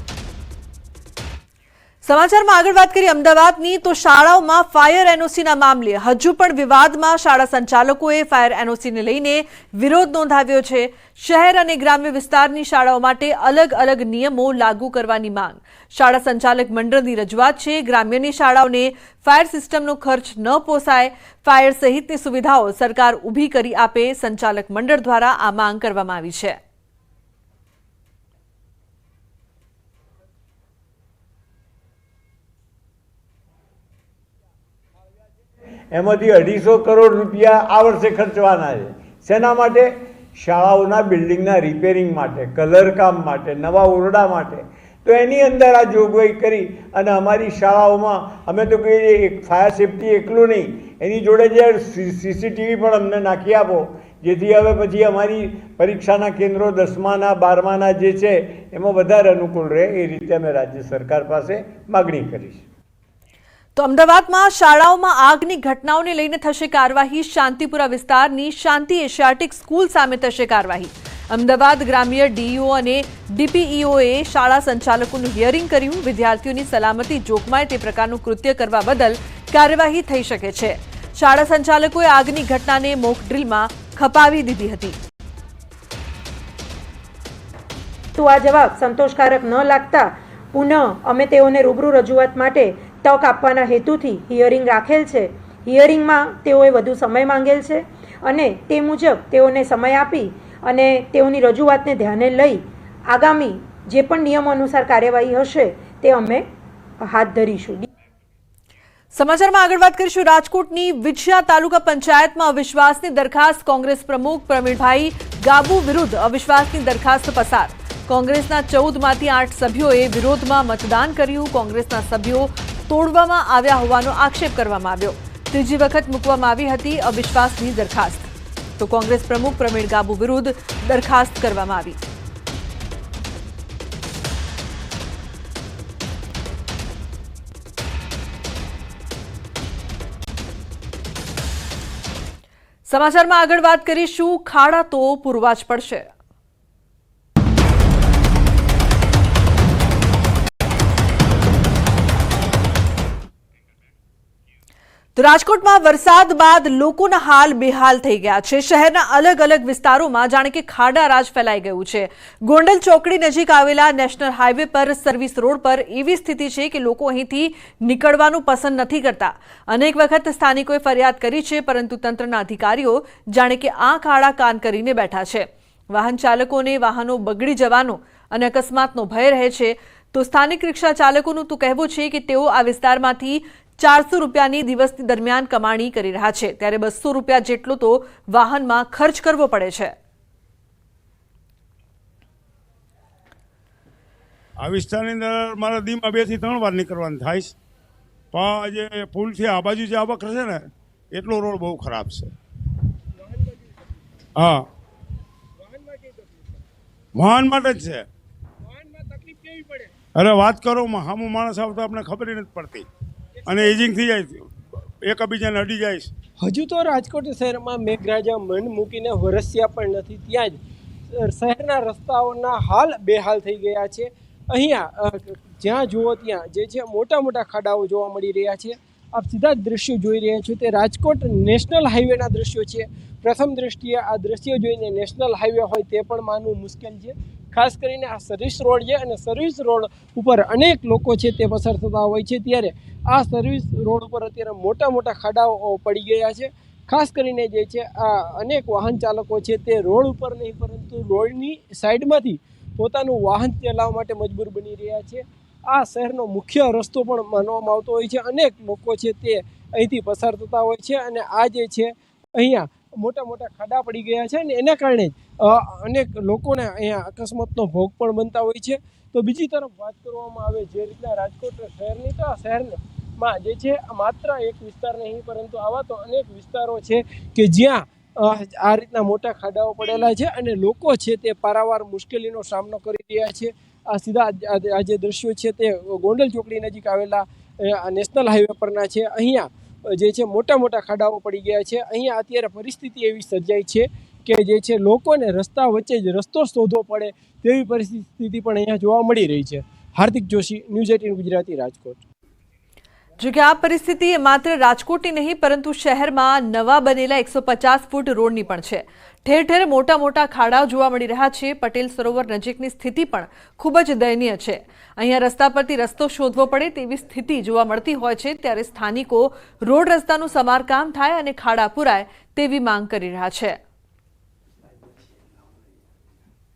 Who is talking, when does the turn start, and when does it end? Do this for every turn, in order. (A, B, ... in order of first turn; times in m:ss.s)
0:02.0-0:26.6 A
0:35.9-1:02.6 B
1:03.8-1:25.0 A
1:28.2-1:46.4 C
1:47.0-1:47.9 C
1:49.1-2:12.0 A
2:22.9-2:26.0 A
2:35.2-3:09.9 A
3:14.6-3:17.5 D
3:18.3-3:22.3 D
3:23.2-3:23.7 E
3:24.4-3:24.6 D
3:25.6-3:26.4 E
3:27.2-3:28.1 D
3:28.6-3:29.9 E
3:30.2-3:32.8 D
3:33.5-3:34.4 D
3:35.0-3:36.1 D
3:36.4-3:40.6 E
3:41.1-5:02.0 E
5:03.2-5:23.6 A